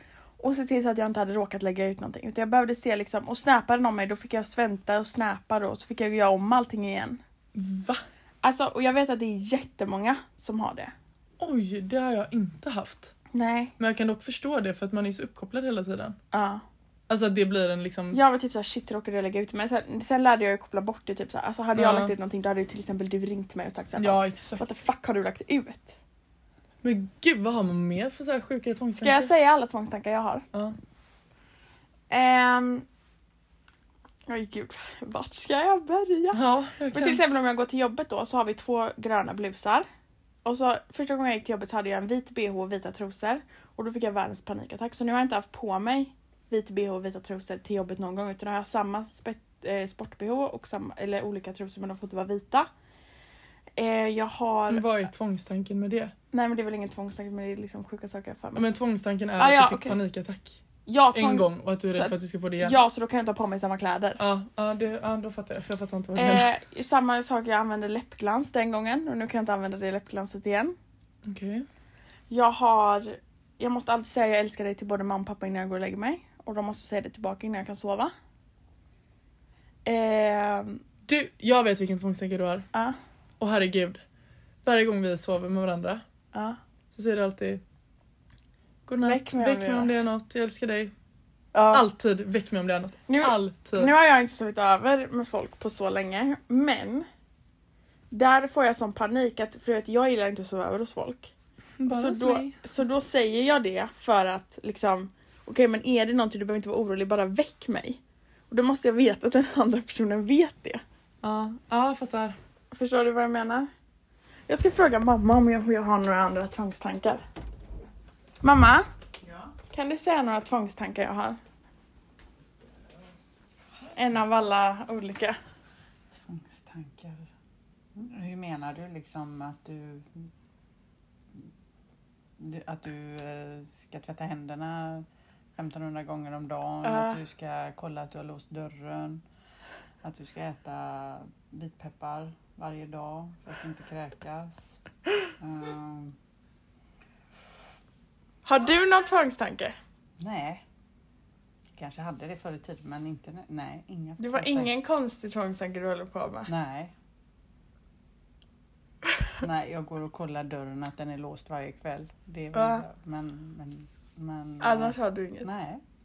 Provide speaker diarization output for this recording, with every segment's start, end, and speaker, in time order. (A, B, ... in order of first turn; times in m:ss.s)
0:00.4-0:07.2 A
0:07.5-0:08.0 B
0:08.4-0:10.9 A
0:11.4-0:13.1 B
0:13.3-0:13.7 A
0:13.8-0:16.2 B
0:16.3-0:16.6 A
0:17.1-0:18.2 B
0:18.1-0:26.0 A
0:21.8-0:22.1 B
0:24.0-0:24.6 B
0:26.8-0:29.3 B
0:29.0-0:30.4 A
0:32.1-0:32.9 A
0:34.3-0:39.9 A
0:36.3-0:37.2 B
0:40.4-0:52.7 A
0:53.8-0:54.9 A
0:54.7-0:56.1 B
0:56.3-0:58.7 A
0:58.6-1:02.8 B
0:59.4-1:00.0 A
1:00.9-1:04.2 A
1:04.2-1:06.5 B
1:06.2-1:10.8 A
1:11.2-1:11.7 B
1:12.3-1:18.1 A
1:19.8-1:20.8 A
1:21.1-1:22.7 B
1:23.4-1:24.0 B
1:24.6-1:26.0 B
1:26.3-1:26.6 A
1:26.9-1:27.6 B
1:28.9-1:30.9 B
1:29.0-1:29.9 A
1:31.5-1:31.8 A
1:31.7-1:33.9 B
1:33.1-1:37.1 A
1:38.1-1:41.3 A
1:41.8-1:42.6 B
1:41.9-1:50.8 A
1:51.2-1:52.4 B
1:52.7-1:53.7 A
1:54.5-1:57.2 A
1:58.4-1:58.9 A
1:59.7-2:01.4 A
2:03.9-2:05.4 A
2:06.1-2:07.3 C
2:08.0-2:10.3 C
2:12.4-2:19.2 C
2:16.8-2:17.2 A
2:20.0-2:24.8 C
2:25.4-2:26.2 C
2:28.4-2:29.8 A
2:30.2-2:30.6 C
2:31.8-2:34.7 C
2:34.2-2:36.5 A
2:36.5-2:36.9 C
2:39.4-2:45.8 C
2:42.5-2:42.8 A
2:44.6-2:45.5 A